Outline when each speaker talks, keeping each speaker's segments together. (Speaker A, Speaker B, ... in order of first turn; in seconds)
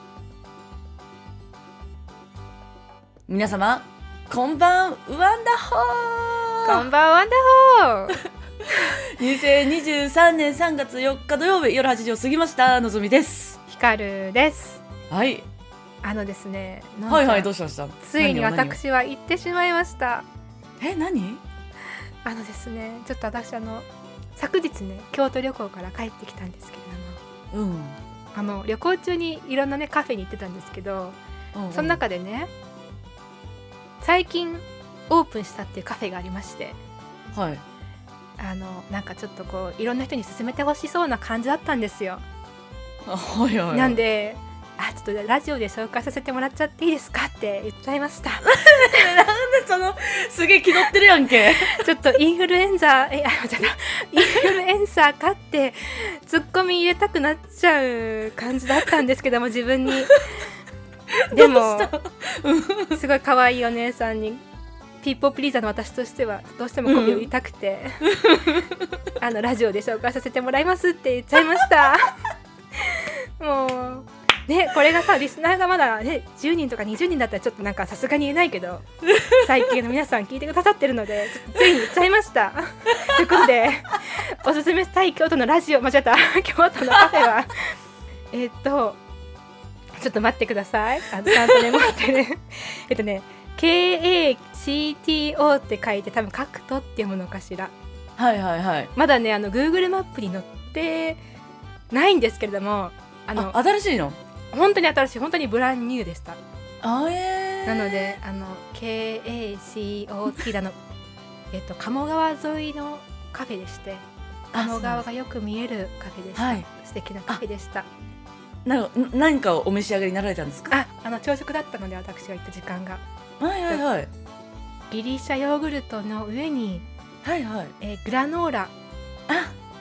Speaker A: 3.3-6.8, 8.7-13.6, 15.1-15.4, 17.1-18.8, 20.8-21.4, 27.5-28.0, 31.5-32.0, 37.3-37.6, 43.0-44.0, 48.4-51.8, 61.1-63.0, 66.8-67.3, 68.0-68.9, 79.1-79.4, 91.3-91.8, 98.2-98.9, 103.3-104.2, 106.8-108.2, 114.5-115.0, 116.3-116.7, 118.6-120.8, 123.4-124.1, 127.2-127.7, 129.3-129.5
Speaker B: 6.6-8.2, 13.7-14.8, 16.0-17.5, 18.0-20.2, 22.2-27.2, 28.3-31.2, 31.7-32.5, 34.0-36.8, 38.4-42.2, 43.7-49.1, 51.6-60.2, 61.3-61.9, 62.9-64.4, 65.0-68.1, 69.2-72.2, 72.7-87.8, 88.3-89.0, 89.9-97.7, 98.9-101.2, 101.9-103.5, 104.5-106.4, 107.7-110.8, 111.5-117.9, 120.7-123.0, 124.9-126.9, 127.8-128.7